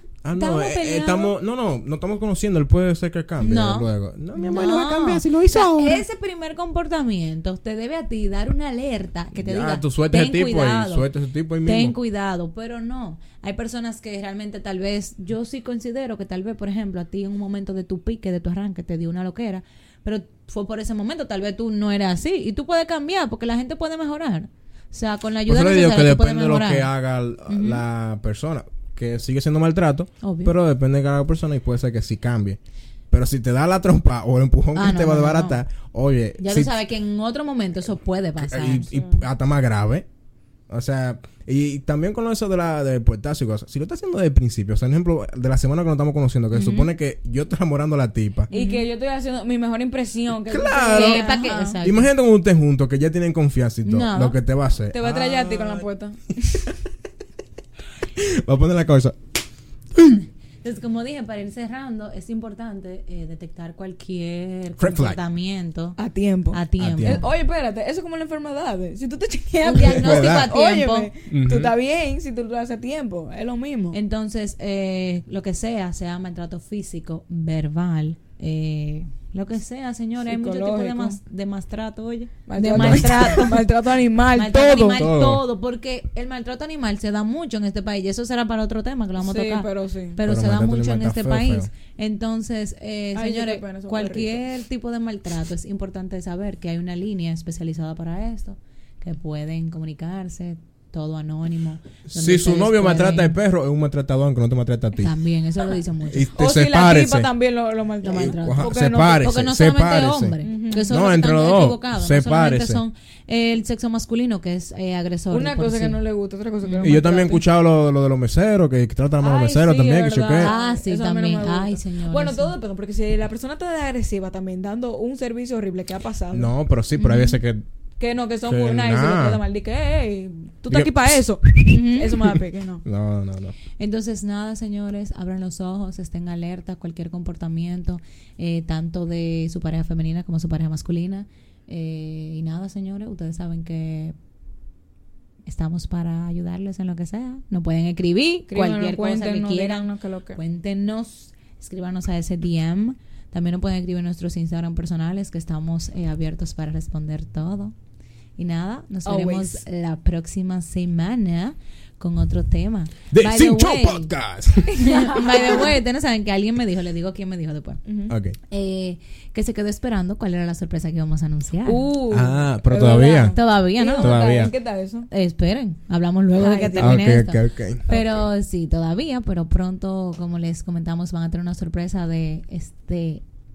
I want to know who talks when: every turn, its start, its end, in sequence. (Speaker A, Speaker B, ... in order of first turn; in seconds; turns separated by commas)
Speaker A: 0.2-6.0, Speaker B: 0.3-1.3, Speaker B: 3.4-11.1, Speaker A: 9.3-12.0, Speaker B: 11.7-26.9, Speaker A: 25.5-32.6, Speaker B: 27.5-27.8, Speaker B: 30.2-30.5, Speaker A: 33.1-36.8, Speaker B: 34.7-35.6, Speaker B: 36.4-39.0, Speaker A: 38.4-40.1, Speaker A: 40.7-48.5, Speaker B: 46.5-46.9, Speaker C: 48.5-51.8, Speaker B: 48.5-48.8, Speaker A: 50.5-55.9, Speaker B: 50.9-52.1, Speaker B: 53.9-54.4, Speaker C: 54.9-56.7, Speaker A: 58.1-59.2, Speaker B: 60.6-66.0, Speaker A: 64.8-65.2, Speaker C: 66.0-74.0, Speaker B: 66.5-67.3, Speaker A: 66.8-67.2, Speaker B: 69.6-71.1, Speaker A: 69.7-70.5, Speaker A: 71.3-71.7, Speaker B: 73.9-83.6, Speaker C: 80.3-81.2, Speaker C: 82.5-85.0, Speaker A: 82.8-83.4, Speaker B: 84.3-103.3, Speaker A: 84.5-85.4, Speaker C: 89.2-90.2, Speaker A: 90.2-91.7, Speaker C: 93.2-94.4, Speaker A: 102.1-105.1, Speaker B: 105.0-106.3, Speaker A: 106.1-107.3, Speaker C: 106.4-109.2, Speaker B: 108.0-116.0, Speaker A: 108.1-110.3, Speaker C: 110.4-110.9, Speaker A: 110.9-112.8, Speaker C: 115.3-117.4, Speaker B: 116.6-117.0, Speaker A: 116.8-120.5, Speaker C: 119.2-126.5, Speaker B: 120.4-122.5, Speaker A: 126.3-127.6, Speaker B: 127.0-127.4, Speaker C: 128.0-132.8, Speaker A: 128.4-129.4, Speaker A: 130.7-131.8, Speaker B: 131.7-132.1, Speaker A: 132.3-133.6, Speaker B: 133.8-144.2, Speaker B: 145.5-157.7, Speaker C: 148.5-150.4, Speaker B: 158.4-164.1, Speaker C: 159.1-159.6, Speaker A: 163.1-164.8, Speaker C: 164.7-165.8, Speaker B: 164.7-167.8, Speaker C: 167.8-168.2, Speaker A: 168.1-168.4, Speaker B: 168.5-171.9, Speaker C: 171.7-175.1, Speaker A: 172.1-174.5, Speaker B: 173.3-174.5, Speaker B: 175.1-183.2, Speaker C: 176.4-177.0, Speaker A: 176.8-177.9, Speaker C: 177.9-178.2